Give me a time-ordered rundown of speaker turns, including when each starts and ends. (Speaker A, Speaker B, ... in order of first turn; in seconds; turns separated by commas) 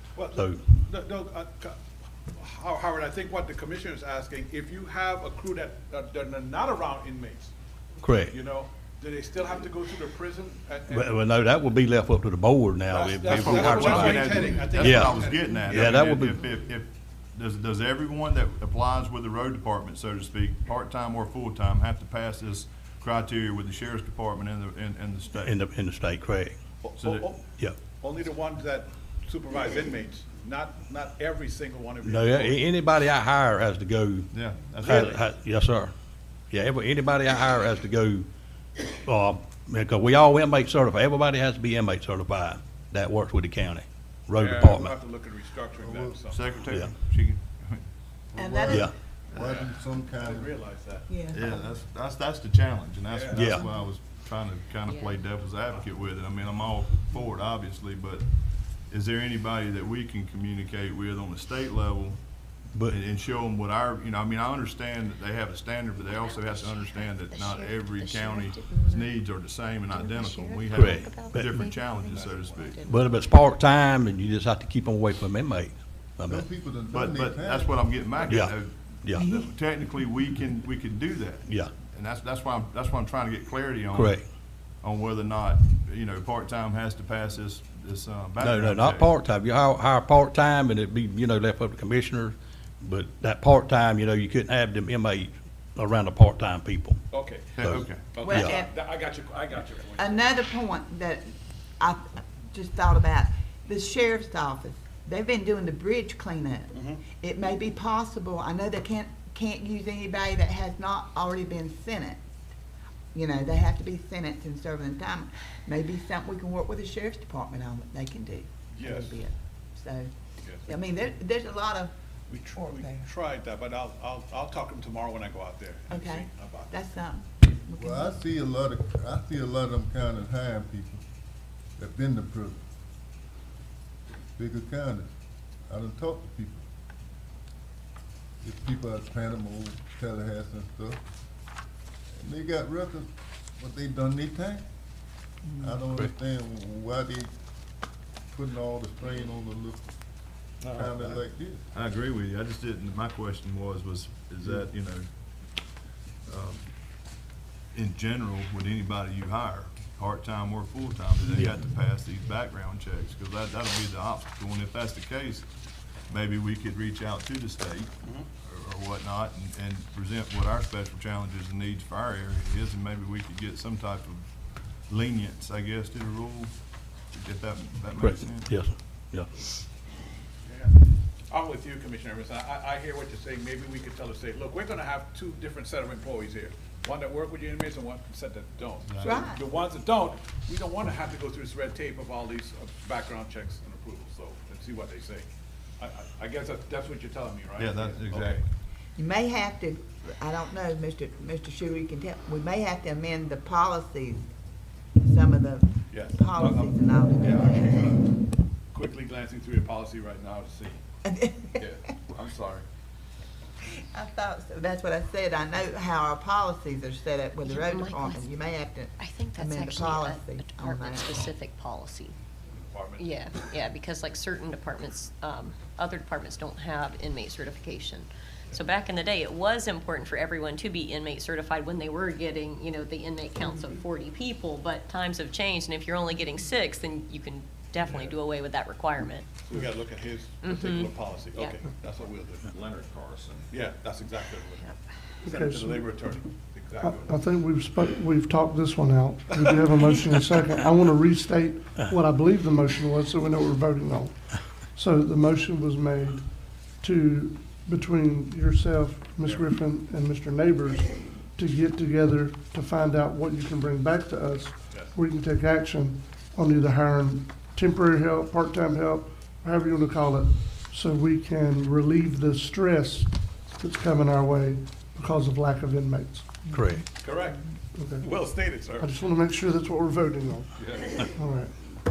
Speaker A: 0.1-7.5, Speaker B: 0.3-0.7, Speaker B: 8.0-8.3, Speaker A: 8.3-11.2, Speaker B: 10.9-16.4, Speaker A: 12.9-15.9, Speaker C: 13.3-25.6, Speaker B: 25.4-26.6, Speaker A: 26.8-32.6, Speaker C: 27.0-27.3, Speaker B: 32.0-34.3, Speaker C: 34.3-35.2, Speaker B: 34.8-35.9, Speaker B: 36.5-38.3, Speaker B: 38.8-44.9, Speaker A: 44.4-46.6, Speaker D: 45.8-46.2, Speaker C: 46.3-47.8, Speaker D: 48.3-50.5, Speaker E: 48.4-48.9, Speaker B: 48.7-48.9, Speaker A: 49.3-51.1, Speaker E: 51.1-51.7, Speaker C: 51.3-58.2, Speaker A: 53.1-53.4, Speaker B: 53.3-53.6, Speaker F: 54.9-55.1, Speaker C: 58.9-62.2, Speaker C: 62.8-72.8, Speaker F: 66.3-69.1, Speaker F: 70.0-73.0, Speaker B: 70.7-71.7, Speaker A: 72.1-72.7, Speaker B: 72.8-76.5, Speaker D: 76.3-77.9, Speaker C: 76.9-84.2, Speaker B: 78.3-79.2, Speaker B: 81.5-81.7, Speaker B: 83.9-84.2, Speaker C: 84.8-89.1, Speaker B: 88.4-97.0, Speaker A: 97.1-100.3, Speaker C: 97.5-98.0, Speaker B: 97.6-98.5, Speaker E: 98.2-98.7, Speaker E: 100.0-112.2, Speaker A: 106.7-107.0, Speaker E: 113.1-120.1, Speaker A: 118.7-119.2, Speaker A: 120.4-120.7, Speaker E: 120.6-121.9, Speaker A: 122.3-126.7, Speaker E: 122.5-123.1, Speaker E: 125.9-128.2, Speaker D: 127.8-131.0, Speaker D: 131.8-132.6, Speaker D: 134.3-135.1, Speaker D: 135.7-136.6, Speaker D: 138.4-141.0, Speaker D: 142.2-144.6, Speaker D: 145.6-147.3, Speaker D: 148.3-149.8, Speaker C: 150.7-151.2, Speaker D: 150.7-151.6, Speaker C: 151.7-155.1, Speaker C: 156.3-156.7, Speaker C: 157.7-165.5, Speaker C: 166.1-174.3, Speaker C: 174.9-176.5, Speaker C: 177.1-178.5, Speaker B: 178.0-179.6, Speaker A: 180.4-198.4, Speaker C: 188.9-189.3, Speaker E: 189.0-189.4, Speaker C: 197.6-198.4, Speaker E: 198.9-204.2, Speaker E: 205.0-208.0, Speaker A: 205.9-208.1, Speaker A: 208.7-210.8, Speaker E: 211.0-212.0, Speaker A: 211.6-212.7, Speaker E: 213.8-221.3, Speaker F: 217.4-218.3, Speaker F: 219.0-222.1, Speaker A: 222.5-223.5, Speaker F: 223.0-239.3, Speaker A: 237.8-238.2, Speaker A: 239.4-242.5, Speaker F: 240.4-241.6, Speaker C: 242.5-243.4, Speaker A: 243.5-244.7, Speaker G: 245.2-245.9, Speaker A: 245.2-247.2, Speaker G: 246.8-276.5, Speaker A: 259.2-259.5, Speaker A: 264.7-265.0, Speaker B: 276.5-276.9, Speaker A: 276.9-277.4, Speaker G: 277.7-278.1, Speaker A: 277.9-279.1, Speaker G: 278.8-281.5, Speaker A: 280.5-281.1